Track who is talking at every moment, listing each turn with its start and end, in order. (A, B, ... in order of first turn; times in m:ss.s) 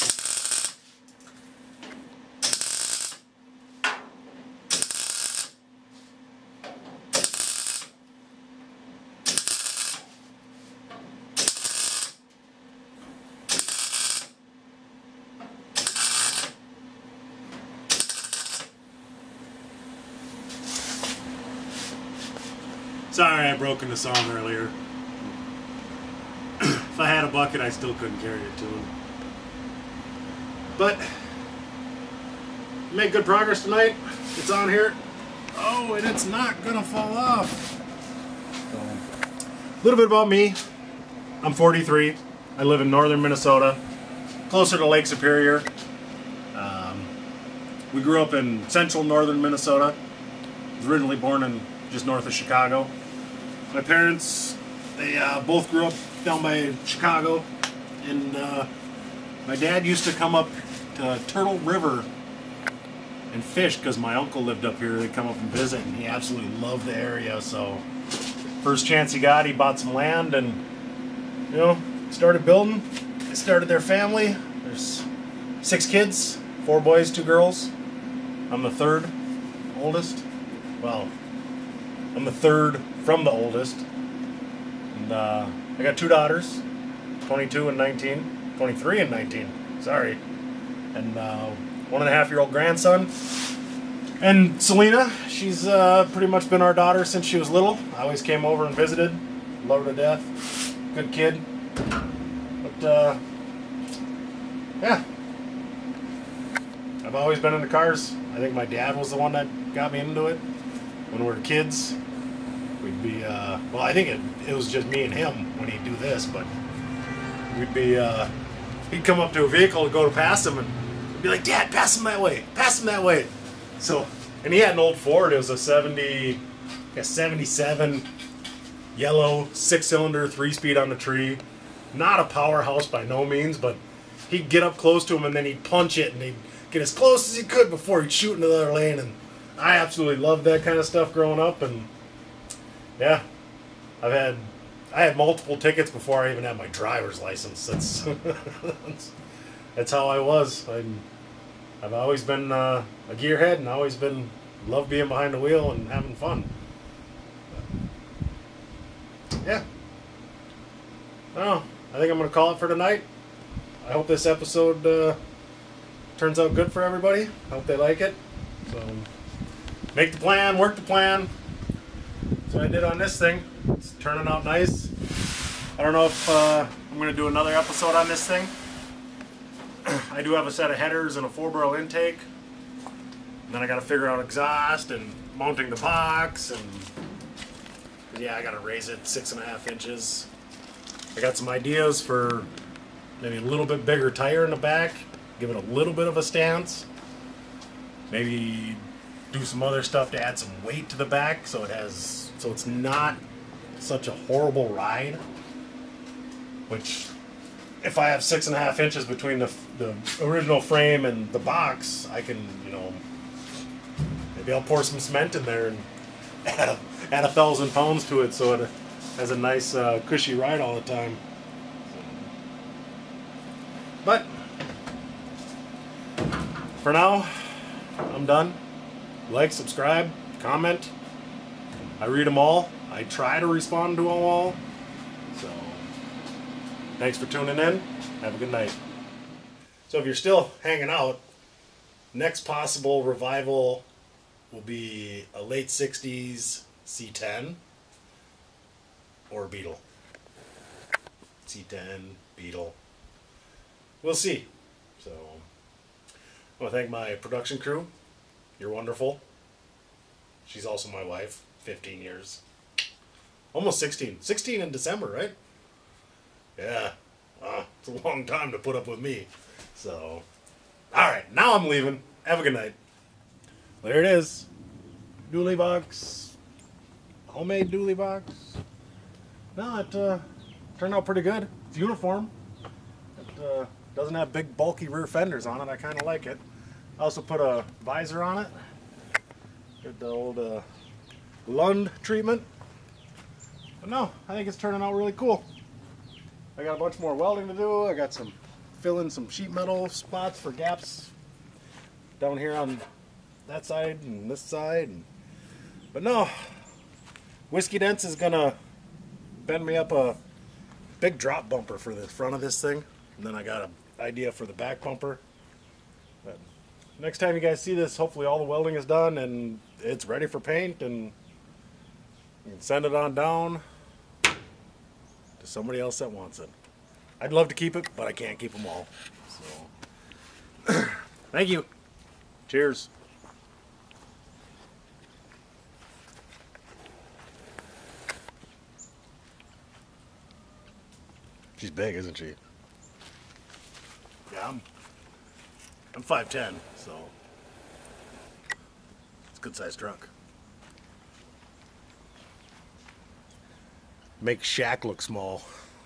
0:23.1-0:24.8 A
0:26.6-0:28.9 A
0:30.8-0:31.1 A
0:32.9-0:35.0 A
0:35.5-0:37.7 A
0:38.7-0:39.0 A
0:39.8-0:40.6 A
0:41.4-0:43.8 A
0:44.5-0:45.7 A
0:46.5-0:47.1 A
0:47.9-0:50.0 A
0:50.8-0:52.9 A
0:53.7-0:57.5 A
0:58.0-0:58.7 A
0:59.4-1:02.1 A
1:03.3-1:07.8 A
1:08.6-1:10.6 A
1:11.5-1:15.1 A
1:15.6-1:17.7 A
1:18.5-1:19.1 A
1:19.7-1:20.2 A
1:20.8-1:21.1 A
1:22.1-1:23.8 A
1:24.9-1:26.6 A
1:27.2-1:30.2 A
1:30.9-1:33.1 A
1:34.2-1:40.3 A
1:40.9-1:41.5 A
1:42.6-1:43.2 A
1:47.0-1:50.4 A
1:51.1-1:52.0 A
1:52.8-1:56.5 A
1:57.5-1:58.3 A
1:58.9-2:06.4 A
2:06.9-2:08.1 A
2:09.0-2:21.9 A
2:23.0-2:23.2 A
2:24.0-2:29.1 A
2:29.8-2:31.0 A
2:31.8-2:36.5 A
2:41.3-2:43.1 A
2:43.8-2:45.2 A
2:46.2-2:49.1 A
2:49.9-2:51.3 A
2:52.5-2:54.9 A
2:55.8-2:58.5 A
2:59.8-3:02.3 A
3:03.5-3:06.9 A
3:08.1-3:10.3 A
3:11.1-3:12.5 A
3:13.2-3:16.9 A
3:18.1-3:23.2 A
3:23.8-3:25.2 A
3:26.7-3:27.1 A
3:27.8-3:33.0 A
3:34.4-3:35.9 A
3:36.4-3:41.2 A
3:41.9-3:42.3 A
3:44.0-3:44.3 A
3:46.8-3:48.6 A
3:49.3-3:50.9 A
3:52.0-3:54.6 A
3:55.3-3:55.9 A
3:57.0-3:58.8 A
3:59.9-4:01.2 A
4:02.1-4:03.8 A
4:04.5-4:07.6 A
4:09.3-4:09.8 A
4:11.4-4:12.8 A
4:14.0-4:15.5 A
4:16.6-4:17.9 A
4:18.6-4:19.2 A
4:20.4-4:22.4 A
4:23.5-4:25.4 A
4:26.6-4:30.2 A
4:30.9-4:32.8 A
4:33.8-4:34.5 A
4:35.3-4:36.4 A
4:37.3-4:38.6 A
4:39.6-4:40.2 A
4:40.8-4:42.3 A
4:43.2-4:46.4 A
4:47.0-4:48.5 A
4:49.8-4:50.6 A
4:51.5-4:52.5 A
4:53.8-4:55.5 A
4:56.6-5:01.1 A
5:02.2-5:02.8 A
5:03.5-5:05.1 A
5:05.9-5:06.5 A
5:07.5-5:08.6 A
5:09.4-5:10.2 A
5:11.0-5:15.2 A
5:17.0-5:21.1 A
5:22.4-5:23.6 A
5:25.4-5:26.5 A
5:27.2-5:29.7 A
5:30.7-5:31.7 A
5:32.5-5:32.9 A
5:41.6-5:42.4 A
5:44.3-5:44.6 A
5:45.9-5:47.1 A
5:49.3-5:50.1 A
5:54.2-5:55.5 A